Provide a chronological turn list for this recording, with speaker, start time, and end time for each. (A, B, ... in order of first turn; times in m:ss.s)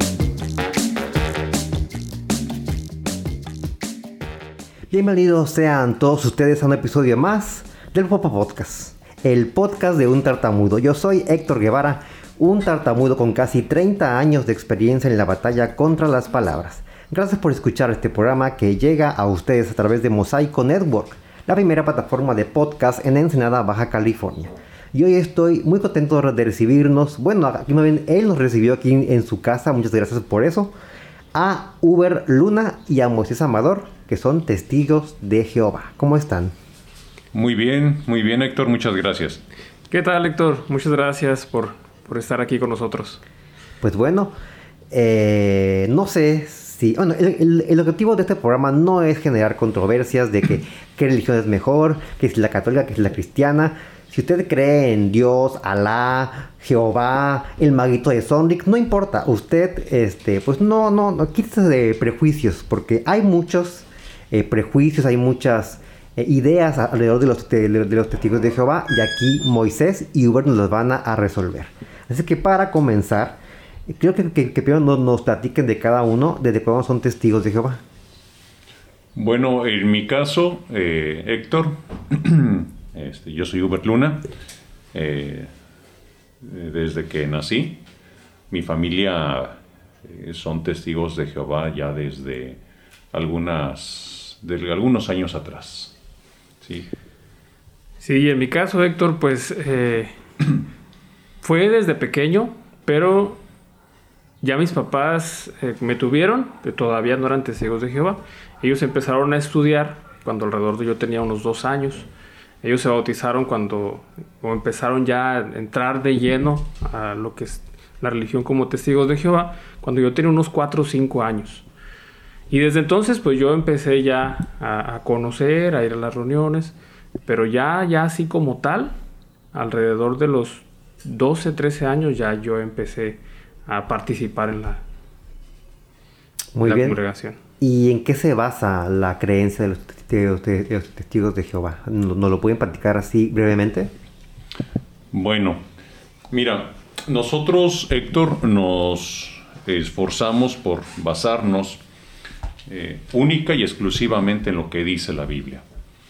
0:04.9-0:30.7 A
0:31.3-0:36.5 A
0:37.3-0:39.4 B
0:39.9-0:43.2 C
0:43.8-0:44.3 A
0:44.9-1:17.8 A
1:19.1-1:24.3 B
1:24.9-1:25.5 B
1:26.4-1:27.8 B
1:28.5-1:32.6 B
1:33.1-1:35.9 B
1:36.6-1:36.9 B
1:38.0-1:40.1 C
1:41.4-1:43.4 C
1:44.4-1:52.1 C
1:52.6-2:01.6 C
2:02.5-2:08.9 C
2:09.5-2:14.8 C
2:16.5-2:17.0 A
2:16.6-2:17.4 C
2:17.6-2:23.9 A
2:25.1-2:25.6 B
2:26.3-2:31.8 B
2:32.7-2:35.6 B